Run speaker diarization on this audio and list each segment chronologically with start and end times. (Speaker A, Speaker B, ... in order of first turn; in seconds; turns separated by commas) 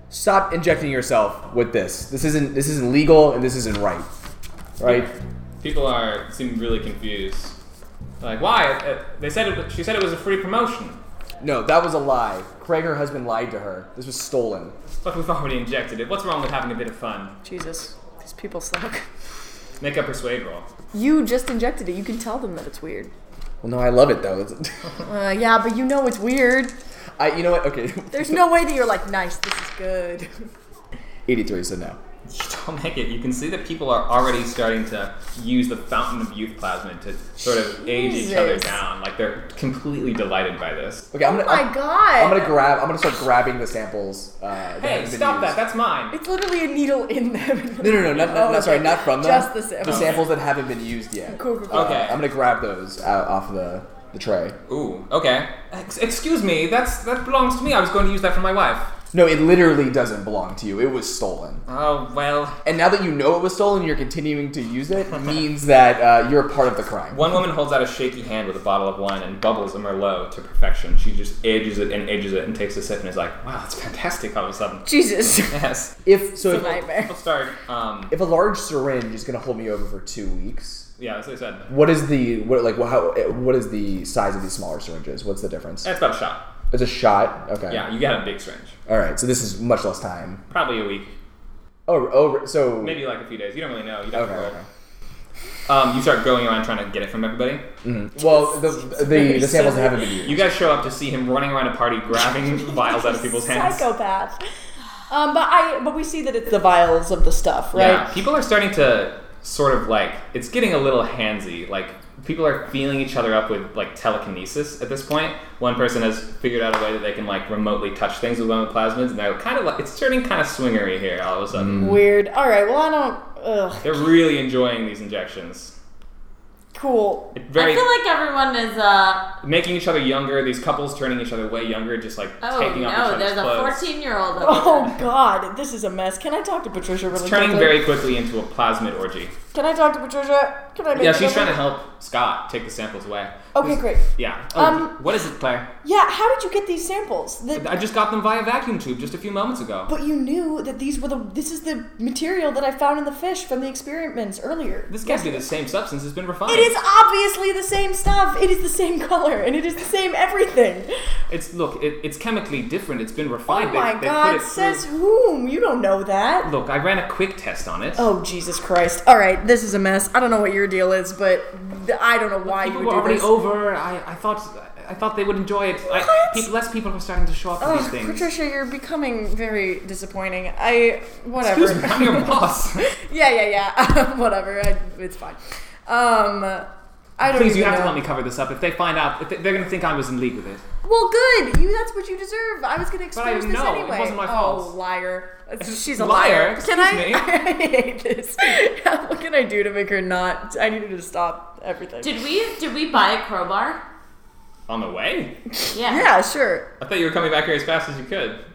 Speaker A: 0.1-4.1, Speaker A: 4.8-5.1, Speaker B: 4.8-7.5, Speaker B: 8.2-11.0, Speaker A: 11.4-14.7, Speaker B: 15.0-17.4, Speaker C: 17.4-19.1, Speaker B: 19.8-20.7, Speaker C: 20.9-23.1, Speaker A: 23.6-24.9, Speaker C: 25.0-26.7, Speaker A: 27.2-28.5, Speaker C: 28.1-30.5, Speaker A: 31.2-32.0, Speaker B: 32.3-41.1, Speaker C: 37.8-38.8, Speaker A: 41.1-45.6, Speaker C: 41.2-42.6, Speaker B: 44.8-46.2, Speaker C: 46.1-50.2, Speaker A: 47.8-54.5, Speaker B: 49.8-50.3, Speaker C: 51.3-52.0, Speaker B: 51.7-52.2, Speaker B: 54.7-58.9, Speaker A: 59.1-61.6, Speaker B: 61.7-62.6, Speaker A: 62.6-67.2, Speaker B: 67.1-78.1, Speaker C: 74.8-75.6, Speaker A: 76.0-76.8, Speaker C: 76.4-77.1, Speaker A: 78.1-80.9, Speaker B: 81.0-81.7, Speaker A: 81.7-85.9, Speaker B: 85.8-86.5, Speaker A: 86.7-87.8, Speaker B: 87.7-88.7, Speaker A: 88.9-90.4, Speaker B: 90.5-91.1, Speaker A: 91.8-93.0, Speaker B: 92.8-94.6, Speaker A: 94.1-94.6, Speaker B: 95.7-97.6, Speaker A: 97.8-100.4, Speaker C: 98.2-99.9, Speaker B: 99.3-103.9, Speaker C: 102.3-104.4, Speaker C: 105.1-108.1, Speaker B: 107.7-122.0, Speaker C: 121.7-124.1, Speaker B: 123.8-125.7, Speaker C: 126.7-127.3, Speaker B: 127.3-127.9, Speaker D: 127.5-129.3, Speaker B: 129.4-133.8, Speaker D: 132.4-134.9, Speaker C: 134.4-137.9, Speaker B: 137.1-139.3, Speaker C: 139.5-141.7, Speaker B: 140.9-145.7, Speaker C: 143.5-145.0, Speaker C: 145.8-147.8, Speaker B: 147.5-149.9, Speaker C: 149.9-155.4, Speaker B: 154.9-156.7, Speaker C: 156.5-160.9, Speaker B: 161.3-164.8, Speaker C: 163.5-166.5, Speaker B: 166.4-168.1, Speaker C: 167.9-173.3, Speaker B: 172.4-178.2, Speaker C: 175.9-176.4, Speaker C: 177.6-188.0, Speaker B: 181.4-182.9, Speaker B: 187.2-190.6, Speaker C: 190.8-202.1, Speaker B: 193.1-194.8, Speaker B: 195.6-197.3, Speaker D: 202.0-203.8, Speaker B: 204.7-205.4, Speaker D: 205.7-206.1, Speaker C: 205.8-206.7, Speaker B: 206.8-208.4